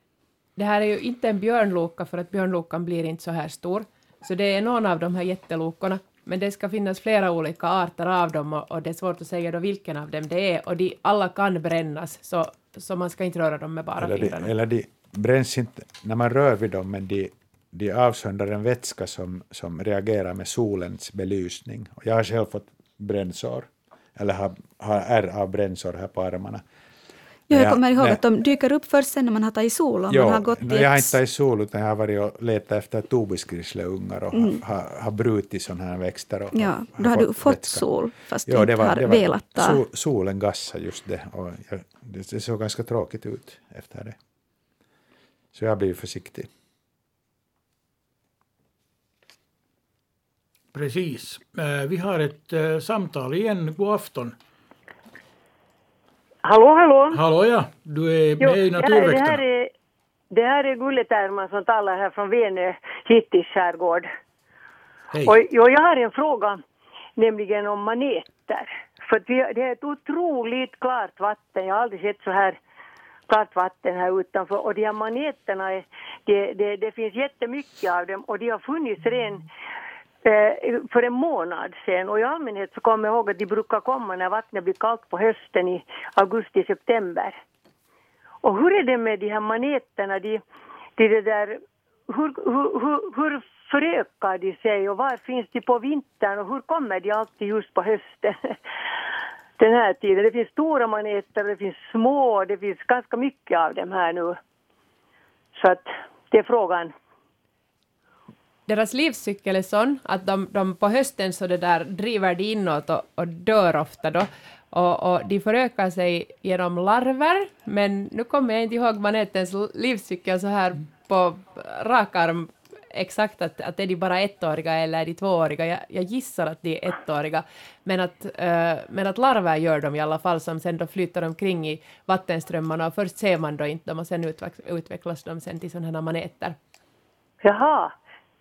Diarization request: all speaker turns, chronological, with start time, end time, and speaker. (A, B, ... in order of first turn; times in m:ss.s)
0:00.6-0:14.5 A
0:14.0-0:26.6 B
0:27.5-0:31.2 C
0:27.5-0:28.2 B
0:30.1-0:37.9 B
0:36.5-0:39.8 C
0:38.5-0:44.2 B
0:45.5-0:46.5 B
0:50.7-0:54.3 D
0:56.4-0:57.2 E
0:57.1-0:59.4 D
0:58.4-0:59.7 E
1:00.3-1:04.1 E
1:05.1-1:05.4 D
1:05.3-1:06.6 E
1:07.2-1:12.6 E
1:13.3-1:19.4 E
1:20.2-1:27.4 E
1:28.4-1:30.4 E
1:31.0-1:38.4 E
1:39.6-1:44.4 E
1:45.6-1:46.9 E
1:48.7-2:16.6 A
2:17.4-2:17.9 E